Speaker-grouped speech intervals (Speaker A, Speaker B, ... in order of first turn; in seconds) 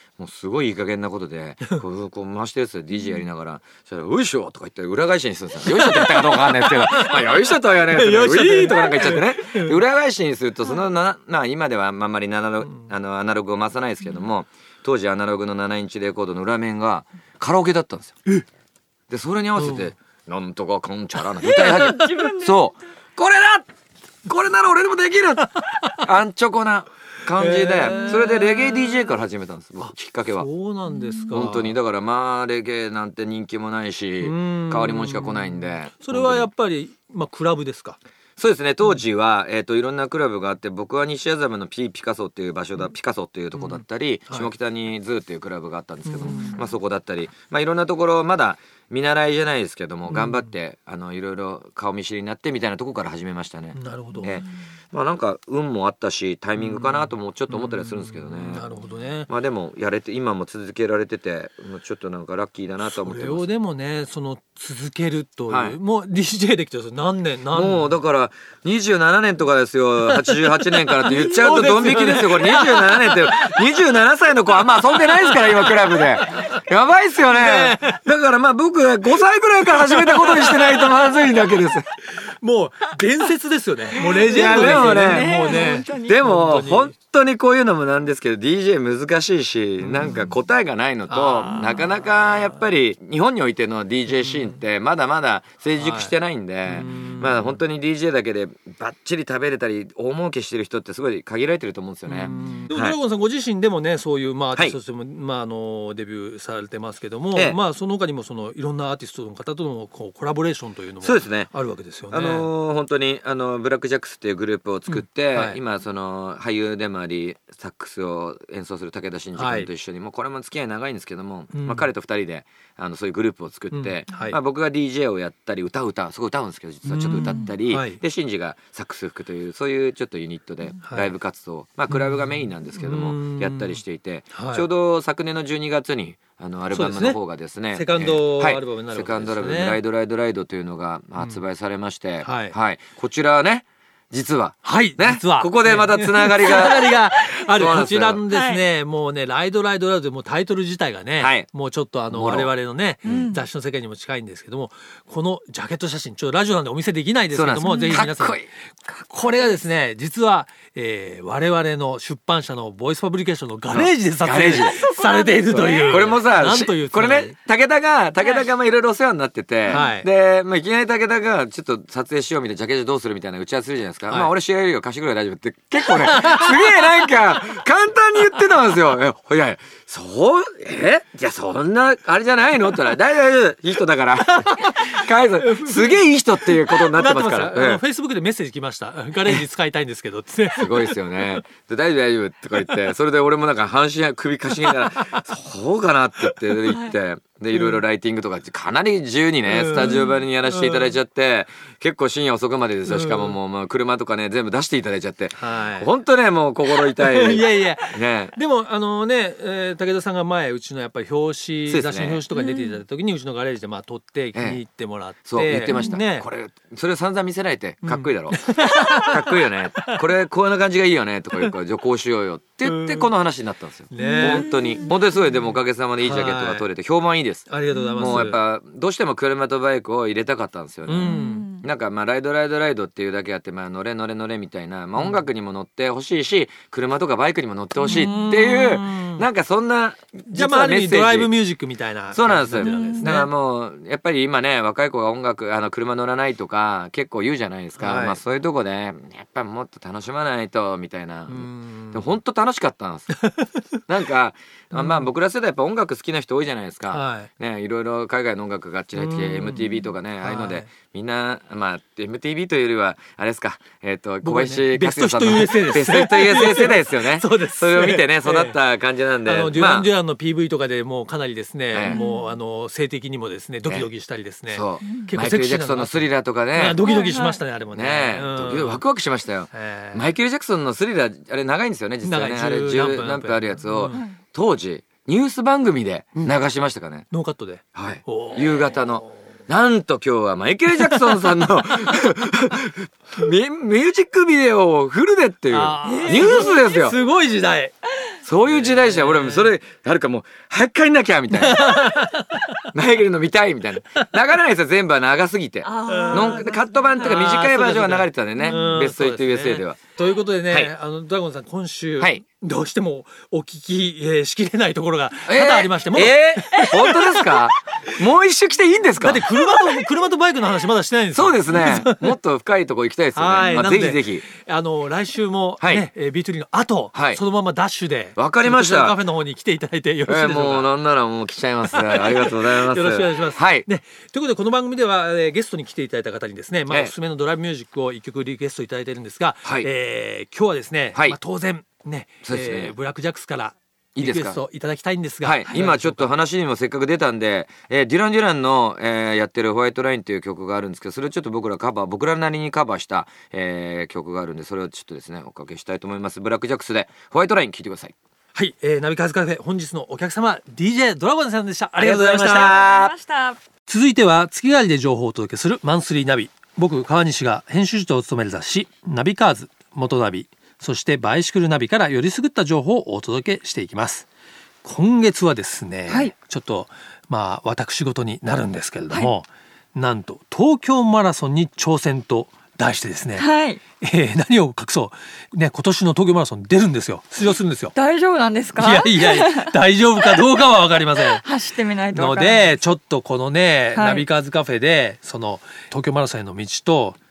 Speaker A: 0.2-18.1, 19.1-23.7, 24.2-30.5, 31.3-36.5, 38.4-58.7, 59.3-63.5, 65.5-65.8, 67.5-81.9, 84.2-103.0, 107.3-107.6, 111.0-111.5, 112.1-147.0, 147.5-148.2, 151.2-151.5, 152.1-152.5, 157.3-158.5, 163.7-164.7, 165.8-187.8, 190.6-208.3, 211.7-212.2, 214.3-214.6, 215.2-241.3, 242.1-253.2, 253.9-269.9, 271.7-272.0, 274.5-276.8, 277.7-287.1, 287.7-297.0, 298.2-301.8, 302.7-309.8, 315.3-319.5, 321.1-324.2, 325.6-325.9, 326.9-327.2, 328.2-329.0, 330.1-333.7, 336.7-336.9, 339.4-339.7, 342.2-342.7, 344.0-344.4, 345.2-357.9, 361.8-362.9
Speaker B: 5.7-9.8, 19.6-19.9, 21.4-22.1, 27.3-28.7, 29.8-31.8, 34.2-38.0, 43.5-44.5, 46.0-46.6, 50.1-50.5, 53.7-54.3, 56.5-59.3, 62.8-67.9, 70.1-73.6, 74.7-76.0, 77.3-78.0, 79.8-81.3, 82.4-86.9, 89.8-90.3, 91.1-92.0, 94.1-94.5, 95.8-96.1, 96.7-97.6, 102.1-112.5, 114.9-115.6, 119.3-119.7, 121.5-121.9, 123.7-124.4, 126.8-128.0, 130.8-131.1, 131.9-133.8, 134.3-134.7, 136.7-137.2, 137.7-139.8, 142.2-142.6, 144.6-167.3, 169.7-170.1, 176.0-177.0, 184.2-191.4, 192.5-192.9, 194.5-195.2, 196.2-196.5, 199.4-200.9, 202.8-203.4, 205.4-205.9, 206.7-216.3, 217.8-220.0, 222.6-223.1, 223.9-224.5, 226.0-226.7, 227.5-228.4, 230.8-231.5, 234.9-235.2, 237.8-239.2, 240.3-243.3, 247.8-248.2, 251.3-252.0, 254.7-255.1, 256.9-257.3, 258.9-260.7, 264.2-268.6, 269.2-278.8, 279.5-280.1, 282.0-284.1, 286.1-286.4, 287.1-289.0, 290.7-291.4, 295.5-297.7, 298.4-299.5, 301.3-302.6, 305.8-317.5, 319.0-322.1, 323.1-330.7, 331.6-346.1, 358.3-362.5, 363.7-374.1, 374.6-383.3, 383.8-387.7, 388.6-391.2, 391.9-397.0
Speaker C: 21.4-22.7, 27.9-28.3, 30.9-31.5, 46.3-46.6, 84.0-86.3, 148.3-148.6, 153.0-153.4, 157.6-158.1, 164.5-166.2, 168.2-168.4, 196.7-196.9, 212.3-212.8, 215.7-216.0, 218.6-219.1, 224.0-224.9, 227.7-228.2, 231.1-231.6, 237.9-238.3, 242.6-243.1, 271.9-272.4, 274.8-275.1, 276.8-277.4, 283.9-284.2, 295.8-296.8, 305.6-307.1, 308.4-308.8, 362.3-363.4, 375.9-376.1, 383.2-383.6, 387.7-390.2, 391.0-392.6, 393.7-394.0